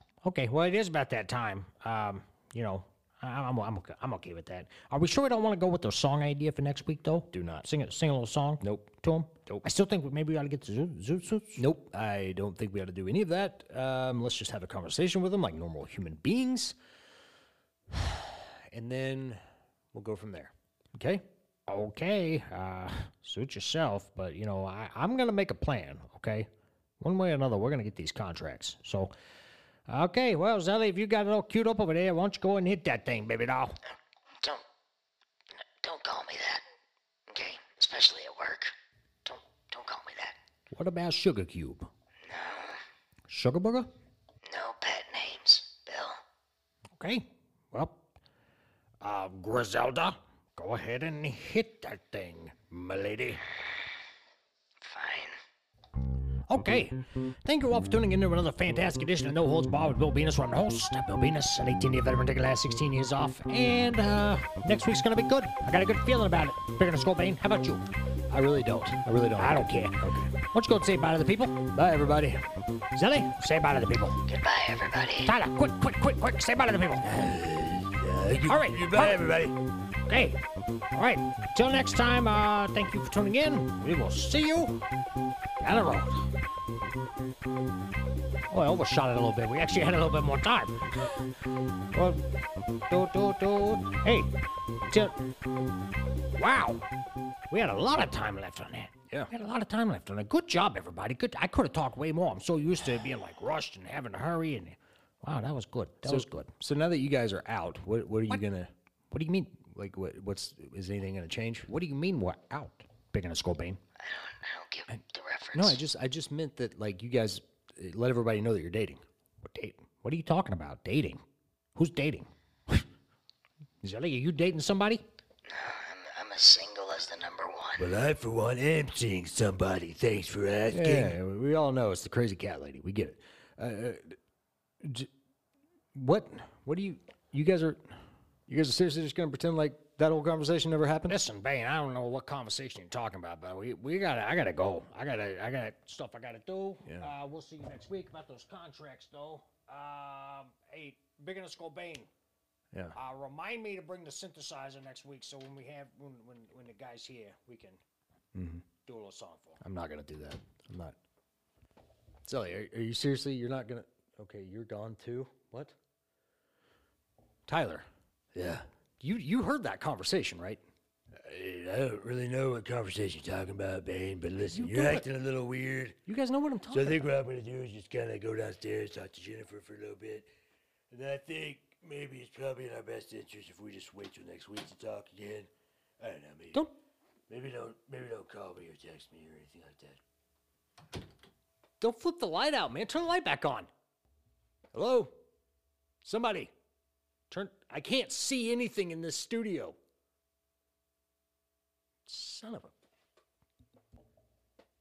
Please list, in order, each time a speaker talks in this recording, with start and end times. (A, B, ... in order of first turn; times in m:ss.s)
0:00.2-0:11.6 A
0:07.4-0:07.6 B
0:11.6-0:16.7 B
0:17.9-0:19.4 B
0:19.9-0:21.2 B
0:21.7-0:26.5 A
0:27.0-0:29.1 A
0:29.9-0:33.8 A
0:34.4-0:34.6 C
0:35.6-0:36.6 C
0:37.3-0:38.7 C
0:39.2-0:40.4 C
0:40.7-0:41.9 A
0:42.2-0:42.8 C
0:43.3-0:43.9 A
0:44.4-0:46.2 C
0:47.0-0:48.0 A
0:49.0-0:53.6 A
0:54.8-0:55.4 C
0:56.5-1:07.8 A
1:08.3-1:10.3 B
1:09.4-1:11.7 A
1:11.7-1:12.4 B
1:12.9-1:14.2 A
1:14.3-1:15.3 C
1:15.2-1:17.2 A
1:17.0-1:19.6 D
1:18.4-1:19.2 A
1:20.1-1:20.4 A
1:20.9-1:24.8 A
1:25.6-1:26.3 A
1:28.5-1:31.0 A
1:31.9-1:32.3 A
1:32.8-1:34.3 A
1:34.9-1:35.2 A
1:36.3-1:36.8 A
1:37.5-1:46.5 A
1:46.0-1:48.7 B
1:49.1-1:49.5 A
1:49.5-1:51.7 B
1:51.7-1:53.8 A
1:54.0-1:55.8 C
1:55.5-1:59.0 B
1:59.4-2:01.2 A
2:01.8-2:02.8 A
2:03.8-2:05.0 A
2:05.5-2:07.9 C
2:07.8-2:11.2 D
2:10.7-2:14.2 B
2:14.8-2:15.1 B
2:15.9-2:17.8 B
2:18.5-2:21.2 B
2:21.1-2:32.1 A
2:26.8-2:27.1 B
2:32.9-2:37.8 A
2:38.3-2:38.6 B
2:38.8-2:39.6 A
2:39.6-2:40.9 B
2:42.2-2:45.7 B
2:47.5-2:47.8 B
2:48.3-2:48.6 D
2:49.0-2:50.6 B
2:51.1-2:56.0 D
2:54.5-2:55.0 B
2:56.1-2:57.0 B
2:56.7-3:00.3 D
3:00.9-3:06.7 D
3:07.3-3:10.0 D
3:11.8-3:13.7 B
3:14.7-3:15.1 B
3:16.0-3:16.5 B
3:17.3-3:19.8 B
3:22.1-3:22.7 B